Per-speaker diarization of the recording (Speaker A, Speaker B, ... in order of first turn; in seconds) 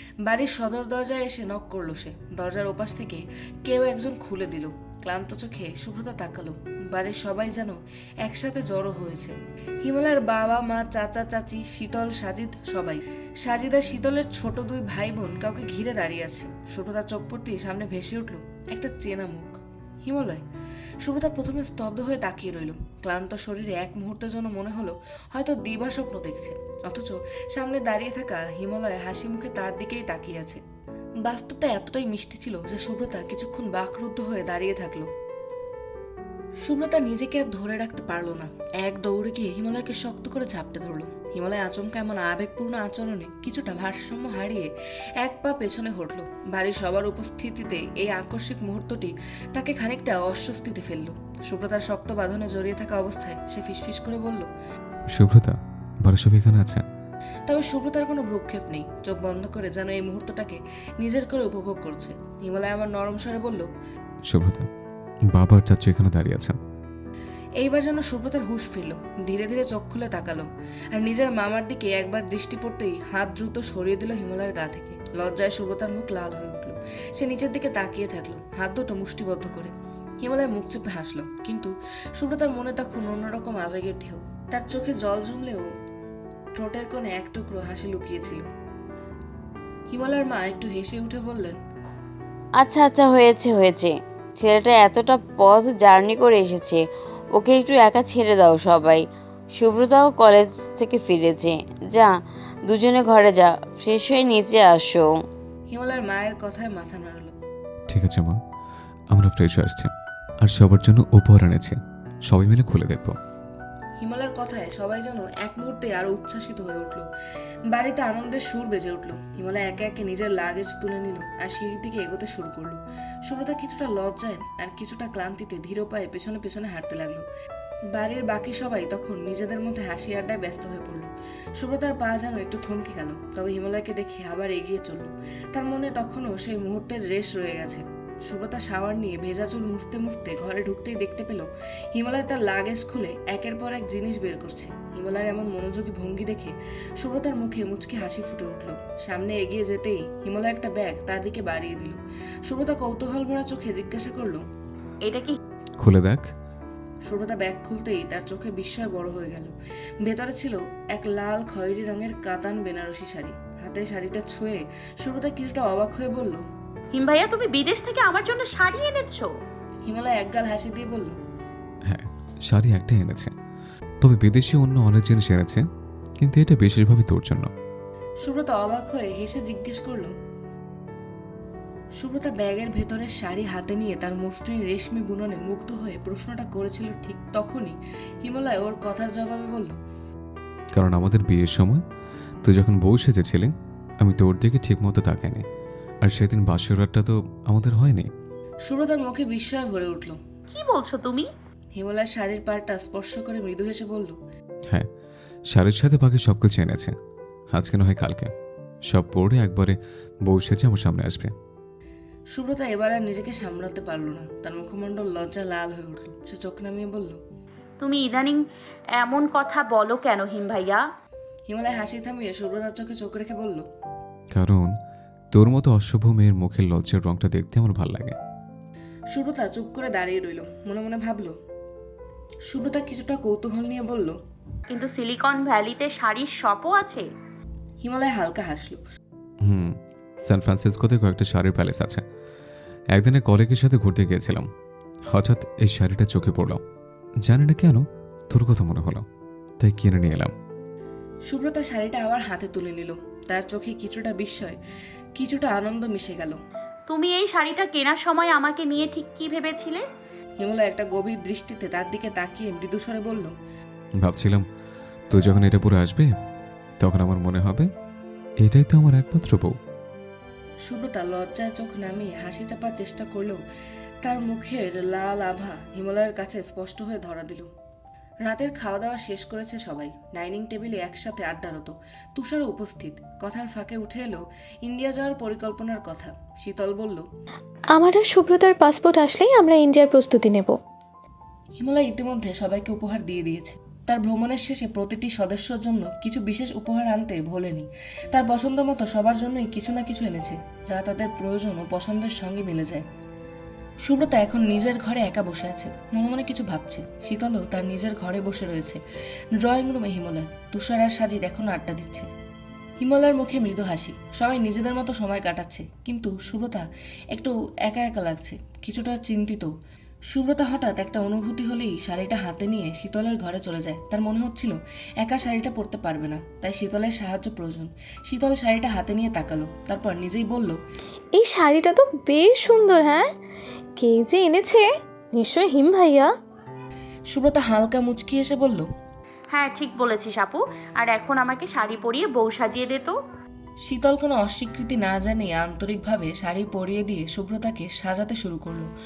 Speaker A: 0.2-20.4, 21.0-30.6, 31.2-35.1, 36.6-44.7, 45.2-54.5, 57.5-63.7, 67.6-85.7, 86.5-88.5, 89.9-91.6, 105.7-107.3, 114.0-117.0, 117.7-127.2, 127.9-154.4, 157.1-166.4, 169.8-171.2, 178.2-180.1, 182.0-189.7, 198.6-200.2, 201.7-204.2, 212.3-217.2, 221.5-223.7, 229.1-231.3, 232.5-234.2, 237.8-238.8, 251.3-254.6, 255.2-256.4, 260.4-263.3, 270.6-273.4, 274.0-277.5, 278.2-287.0, 291.6-302.8, 303.8-308.8, 309.4-312.1, 312.8-319.5, 320.1-330.6, 337.1-338.6, 343.6-348.7
Speaker B: 55.1-56.8, 64.2-64.7, 65.3-66.5, 107.9-108.4, 109.1-109.9, 110.4-113.2, 155.8-156.3, 171.9-173.3, 174.0-175.6, 176.2-177.5, 190.7-191.8, 192.4-193.5, 194.0-195.4, 196.0-198.1, 205.5-206.9, 207.5-208.3, 208.9-211.3, 224.3-224.7, 225.3-228.2, 239.4-242.0, 242.9-244.4, 245.1-246.6, 247.2-249.0, 249.6-250.3, 264.0-264.4, 265.1-266.1, 266.8-267.7, 268.4-269.6
Speaker C: 92.6-102.1, 102.7-105.1
Speaker D: 155.0-155.3, 166.9-169.3, 200.5-201.2, 217.8-218.4, 219.0-220.8, 234.7-237.1, 256.9-259.8, 339.3-342.9
Speaker E: 287.7-290.6, 331.1-333.1, 333.8-336.1